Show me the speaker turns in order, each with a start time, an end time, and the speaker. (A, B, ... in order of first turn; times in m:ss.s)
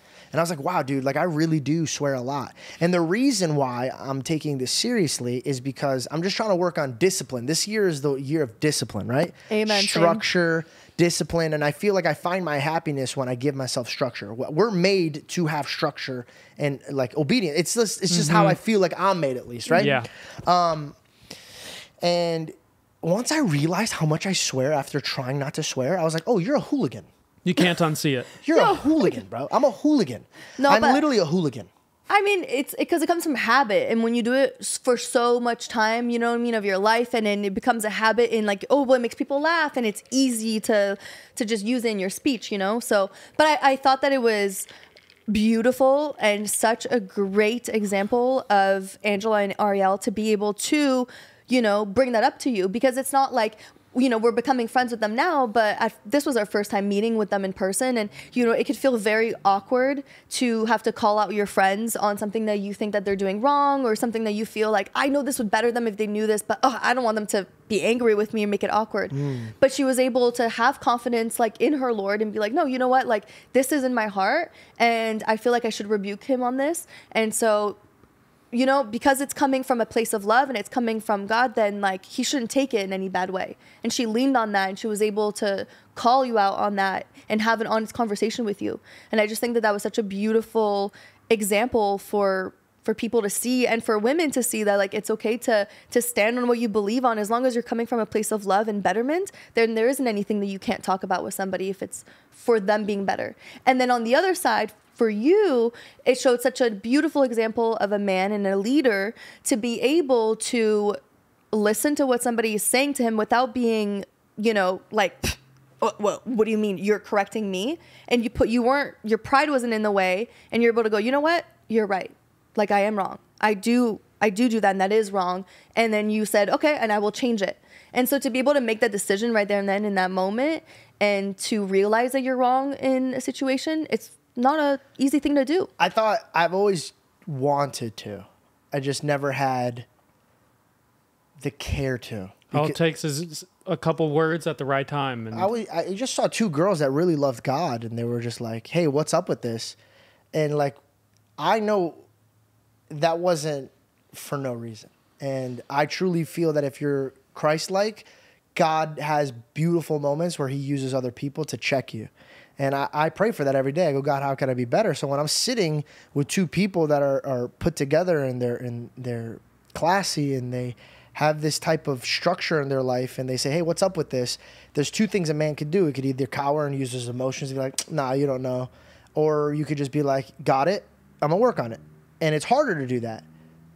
0:00.3-0:19.9 A
0:09.5-0:10.2 B
0:18.1-0:18.6 C
0:19.8-0:20.1 C
0:20.4-0:21.0 A
0:22.0-0:27.1 A
0:27.4-0:28.3 C
0:28.4-0:31.7 A
0:28.5-0:29.2 B
0:30.6-0:31.0 B
0:32.1-0:44.7 B
0:45.3-1:17.8 B
1:09.1-1:09.5 A
1:18.5-1:51.0 B
1:51.5-2:15.7 B
2:15.8-2:19.9 A
2:21.4-2:22.8 A
2:22.5-2:25.5 C
2:25.3-2:29.8 A
2:30.3-2:30.8 A
2:31.4-2:32.0 A
2:32.9-3:03.2 A